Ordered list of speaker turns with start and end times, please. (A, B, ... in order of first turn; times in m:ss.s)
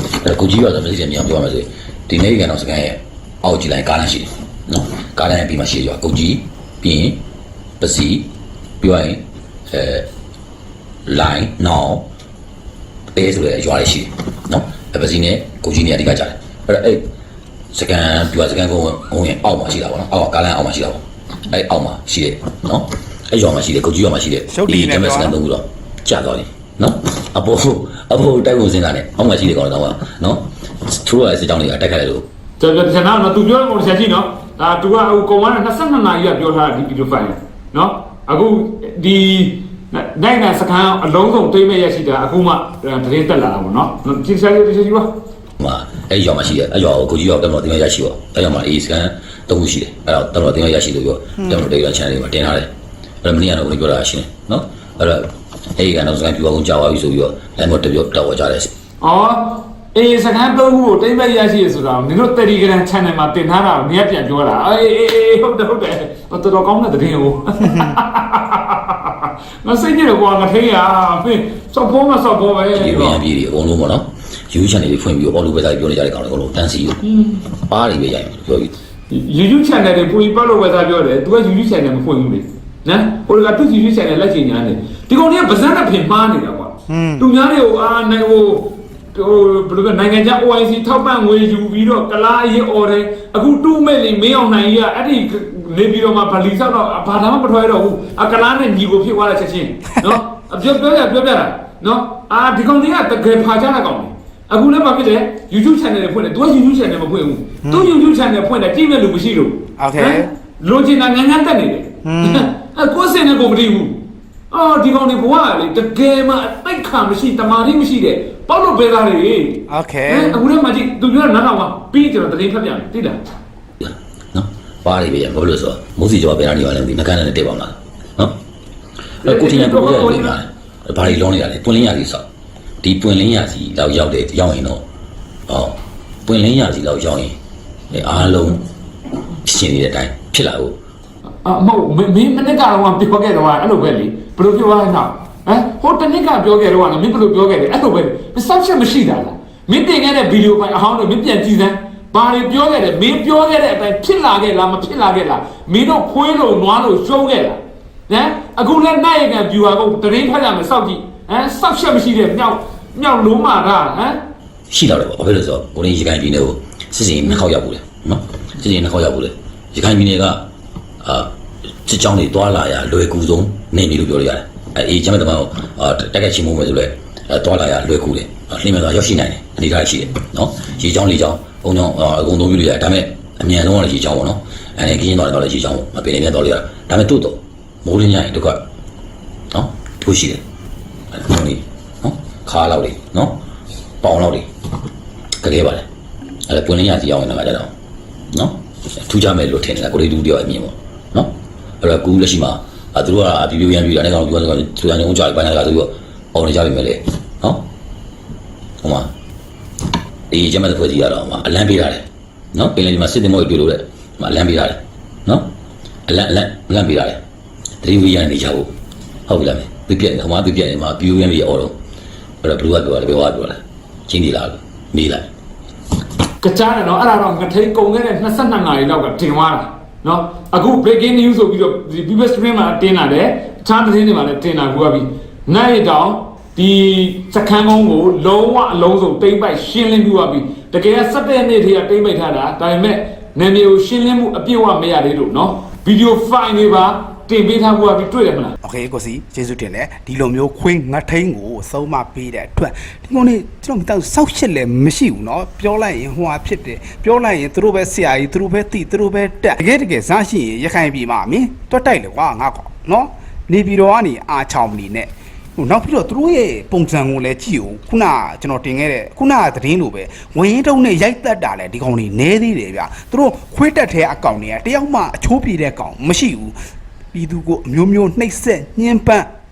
0:00.2-0:07.2 A
0:07.8-0:08.3 A
0:08.8-0:10.0 A
0:11.1-0:12.1 A
0:13.2-0:17.0 A
0:17.7-0:32.3 A
0:24.5-0:25.4 B
0:32.6-0:45.1 C
0:45.6-0:52.7 A
0:53.2-0:58.7 A
0:59.0-1:13.3 C
1:07.6-1:07.9 B
1:12.8-1:17.0 A
1:17.1-1:17.4 C
1:17.7-1:18.7 A
1:19.1-2:03.2 C
1:26.9-1:27.3 B
1:47.6-1:47.9 B
1:49.8-1:50.3 B
1:52.0-1:52.5 B
1:59.7-2:00.4 B
2:03.8-2:08.3 A
2:09.2-2:12.2 A
2:09.2-2:10.4 C
2:12.8-2:14.8 A
2:15.5-2:17.4 A
2:17.9-2:18.6 A
2:19.4-2:20.8 A
2:21.4-2:44.2 C
2:44.7-2:50.4 A
2:51.0-2:51.3 A
2:51.9-3:08.6 A
3:09.5-3:10.4 A
3:11.1-3:13.4 A
3:14.0-3:14.5 A
3:15.4-3:15.9 A
3:16.5-3:17.7 A
3:18.3-3:21.3 A
3:21.8-3:27.6 A
3:28.8-3:29.1 A
3:30.3-3:35.5 A
3:36.1-3:37.2 A
3:37.8-3:38.7 A
3:39.3-3:41.8 A
3:42.4-3:45.3 A
3:46.4-4:08.5 C
4:08.6-4:36.6 B
4:37.1-4:39.3 B